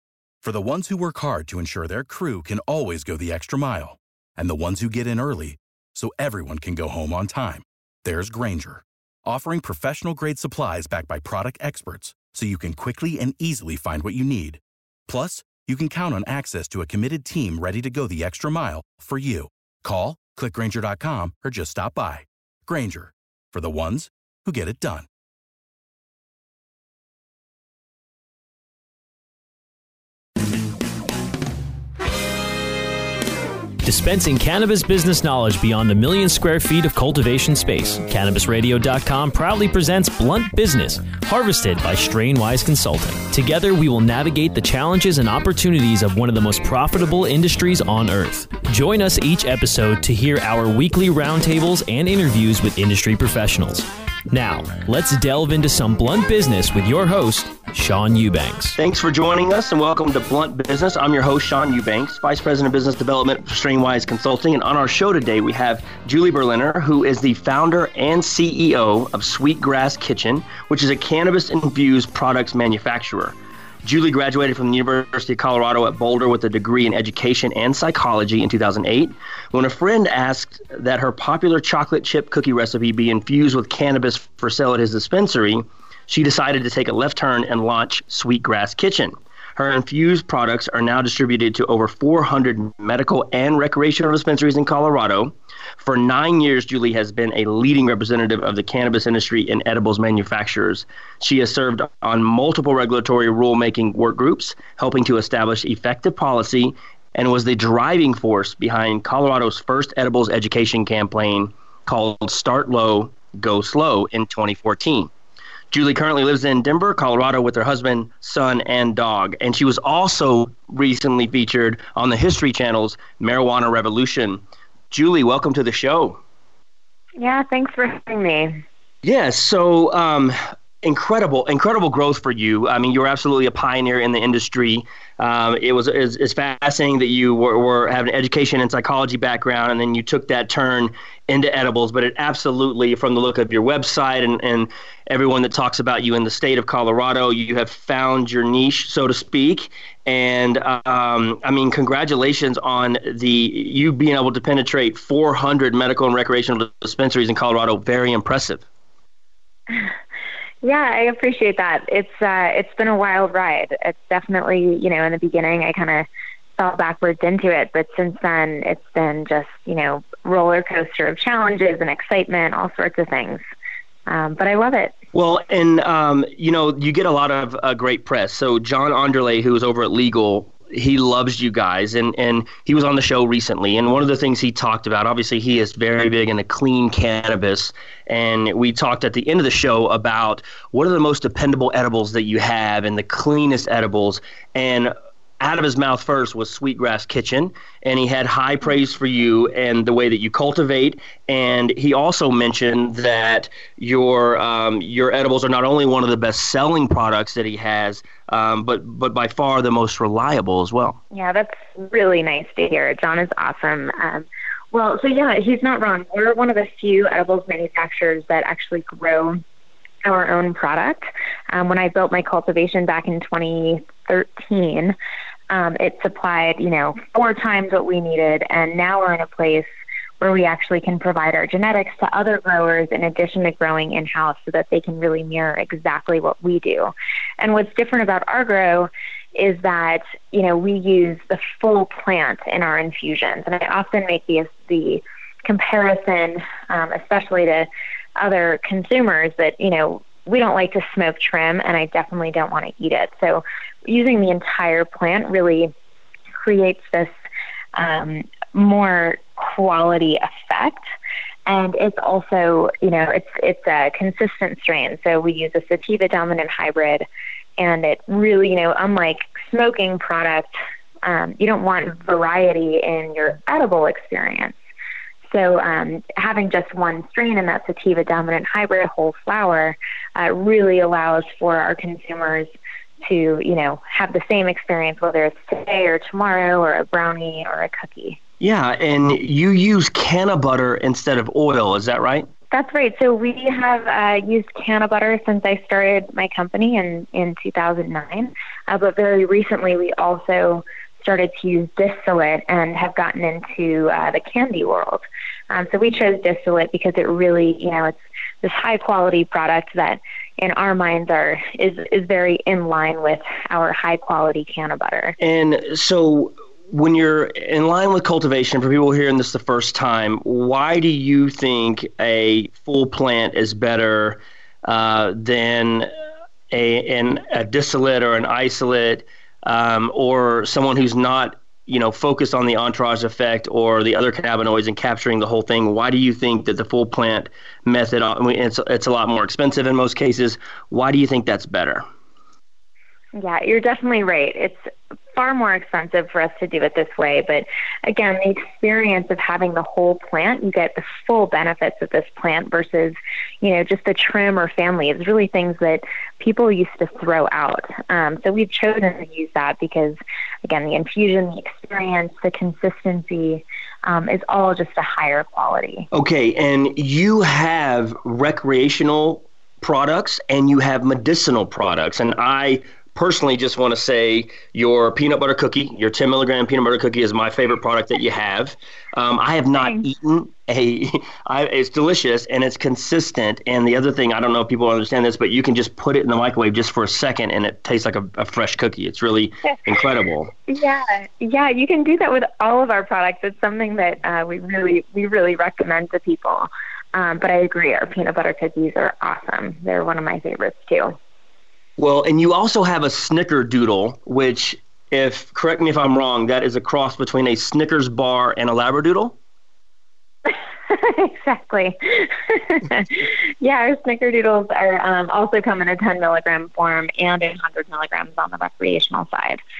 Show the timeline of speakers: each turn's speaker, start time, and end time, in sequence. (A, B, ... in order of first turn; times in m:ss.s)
0:00.4-0:25.1 A
0:33.8-0:58.8 B
0:58.8-1:55.1 C
1:55.7-2:06.2 C
2:07.2-2:08.6 D
2:09.0-2:38.6 C
2:40.6-2:46.0 D
2:46.6-2:53.4 D
2:54.1-2:54.9 D
2:55.1-3:31.0 C
3:31.1-3:39.4 D
3:40.0-3:44.9 D
3:45.5-3:49.7 D
3:50.2-4:15.7 D
4:16.4-4:17.1 D
4:17.7-4:20.8 D
4:21.4-4:27.0 D
4:27.6-4:30.5 D
4:31.0-4:34.6 D
4:35.3-4:42.5 D
4:43.0-4:48.2 D
4:48.4-4:52.3 C
4:52.5-5:15.2 D
5:15.2-5:25.9 C
5:26.5-5:41.8 C
5:43.1-6:05.9 D
6:05.9-6:30.3 C
6:19.6-6:19.9 D
6:30.5-6:41.0 D
6:41.8-6:49.2 C
6:50.3-6:59.4 D